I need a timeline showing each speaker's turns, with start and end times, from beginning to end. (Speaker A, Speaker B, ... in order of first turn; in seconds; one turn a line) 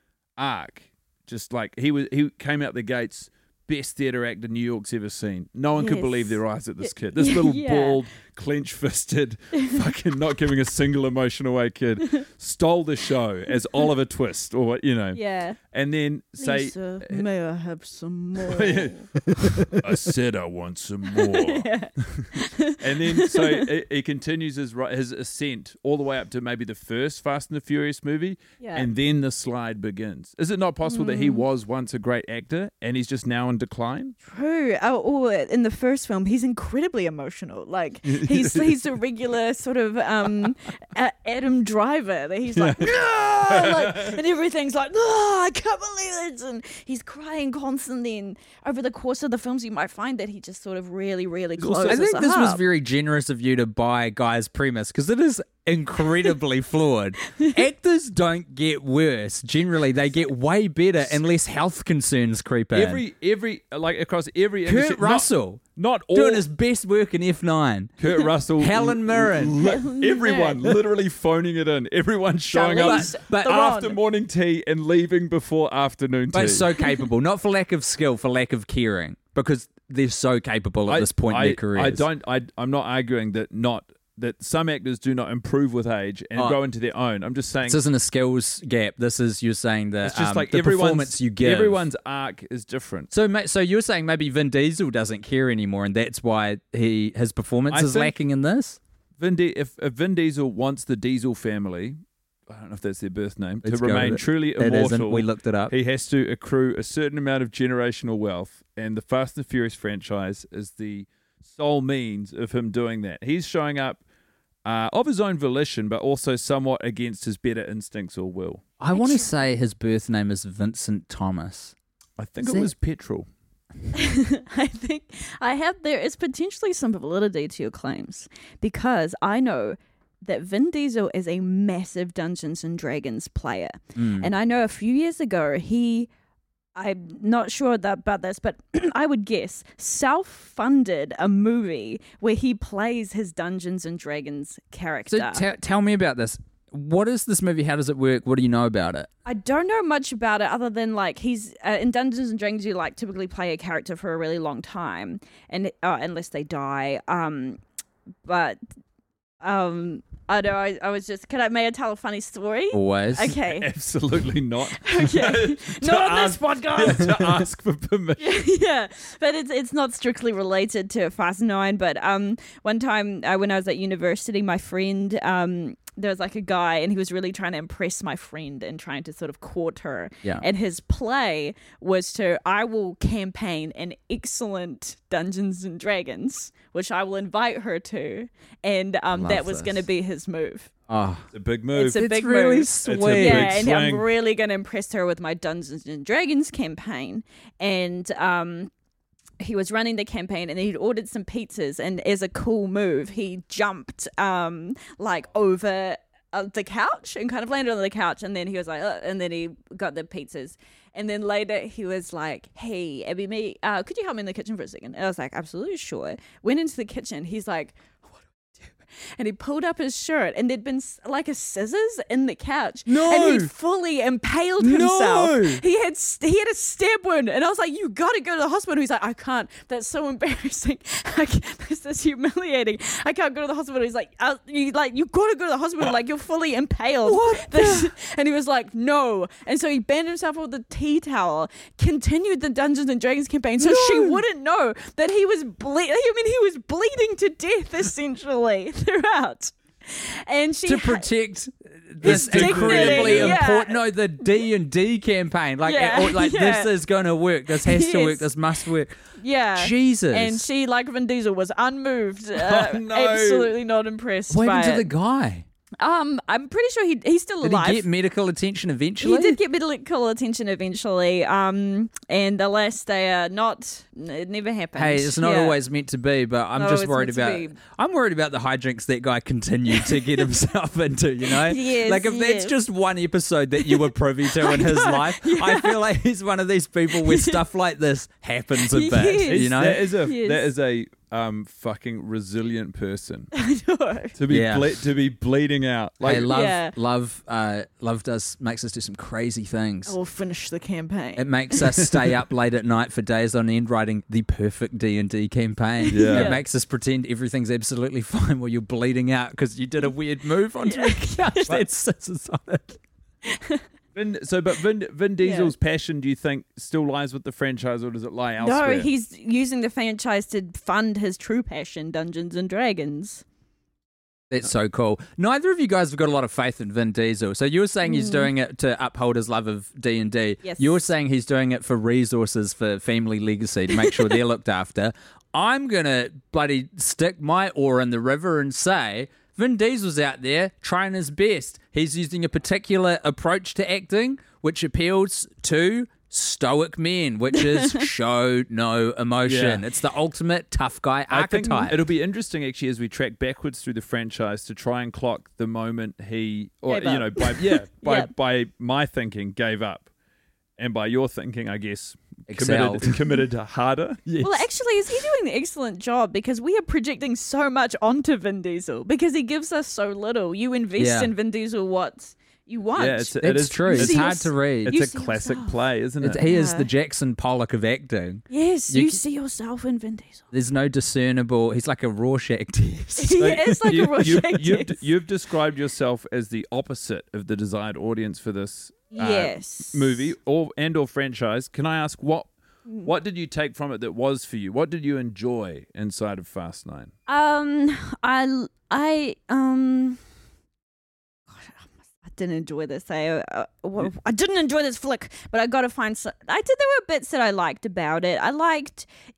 Speaker A: 0.4-17.3
Speaker B: 5.8-8.0
Speaker B: 15.1-15.6
Speaker B: 16.4-19.1
Speaker A: 18.4-34.1
Speaker B: 21.1-23.7
Speaker B: 28.6-28.9
Speaker B: 30.9-31.4
Speaker B: 34.2-52.6
Speaker A: 38.0-38.9
Speaker A: 42.5-44.2
Speaker A: 51.6-52.0
Speaker C: 51.9-63.0
Speaker A: 62.7-66.5
Speaker C: 64.7-65.6
Speaker C: 66.1-68.0
Speaker A: 68.0-76.7
Speaker C: 68.6-69.6
Speaker B: 69.6-70.7
Speaker B: 72.5-74.0
Speaker C: 72.8-73.6
Speaker C: 76.3-82.1
Speaker A: 80.9-87.8
Speaker C: 87.7-91.9
Speaker A: 90.0-93.1
Speaker C: 93.1-98.8
Speaker A: 97.7-98.1
Speaker A: 99.2-114.0
Speaker C: 103.6-105.7
Speaker A: 114.7-118.6
Speaker C: 118.8-121.8
Speaker B: 118.9-119.4
Speaker A: 122.2-123.3
Speaker C: 122.4-122.7
Speaker B: 123.9-136.1
Speaker C: 134.0-134.3
Speaker B: 136.8-145.5
Speaker C: 145.1-149.1
Speaker B: 149.3-157.6
Speaker B: 158.2-158.6
Speaker B: 159.4-163.7
Speaker C: 162.7-163.3
Speaker A: 163.4-168.4
Speaker B: 164.8-167.2
Speaker B: 168.2-190.7
Speaker C: 189.1-189.8
Speaker C: 190.9-191.3
Speaker A: 191.3-192.0
Speaker B: 191.8-198.7
Speaker C: 191.8-193.7
Speaker A: 192.8-194.1
Speaker B: 199.4-251.1
Speaker C: 222.9-223.5
Speaker C: 224.6-225.6
Speaker C: 237.1-237.9
Speaker C: 243.6-244.2
Speaker C: 250.7-258.9
Speaker A: 252.0-253.4
Speaker B: 252.0-254.3
Speaker B: 255.6-256.7
Speaker B: 257.5-258.3
Speaker B: 259.2-264.9
Speaker C: 259.6-260.4
Speaker A: 262.4-263.5
Speaker C: 264.3-265.5
Speaker B: 265.8-267.9
Speaker C: 267.4-269.4
Speaker B: 269.0-275.6
Speaker C: 274.8-289.9
Speaker B: 276.6-277.6
Speaker B: 279.8-280.1
Speaker B: 281.3-282.6
Speaker B: 283.6-285.9
Speaker B: 286.9-287.4
Speaker B: 288.7-290.4
Speaker A: 289.3-293.3
Speaker B: 293.3-294.1
Speaker A: 294.2-296.3
Speaker C: 294.3-294.7
Speaker C: 296.0-299.9
Speaker B: 296.3-296.7
Speaker B: 299.9-301.6
Speaker C: 301.2-312.8
Speaker A: 301.8-302.1
Speaker B: 305.8-306.4
Speaker A: 305.9-306.4
Speaker B: 310.6-311.5
Speaker B: 313.3-313.6
Speaker A: 313.9-318.9
Speaker B: 315.2-315.5
Speaker B: 318.4-323.2
Speaker C: 324.3-351.8
Speaker B: 327.9-328.3
Speaker B: 330.4-330.8
Speaker B: 347.4-347.9
Speaker A: 349.3-349.6
Speaker A: 351.1-359.9
Speaker B: 356.7-358.1
Speaker A: 360.6-364.4
Speaker C: 362.3-363.0
Speaker B: 364.2-375.6
Speaker C: 370.8-371.1
Speaker A: 372.8-376.2
Speaker C: 373.2-374.8
Speaker C: 376.0-379.0
Speaker B: 376.2-376.7
Speaker B: 378.3-380.2
Speaker C: 380.3-383.4
Speaker B: 383.0-384.8
Speaker A: 383.2-392.3
Speaker B: 388.9-390.1
Speaker A: 392.8-396.9
Speaker B: 397.1-400.0
Speaker B: 401.3-408.9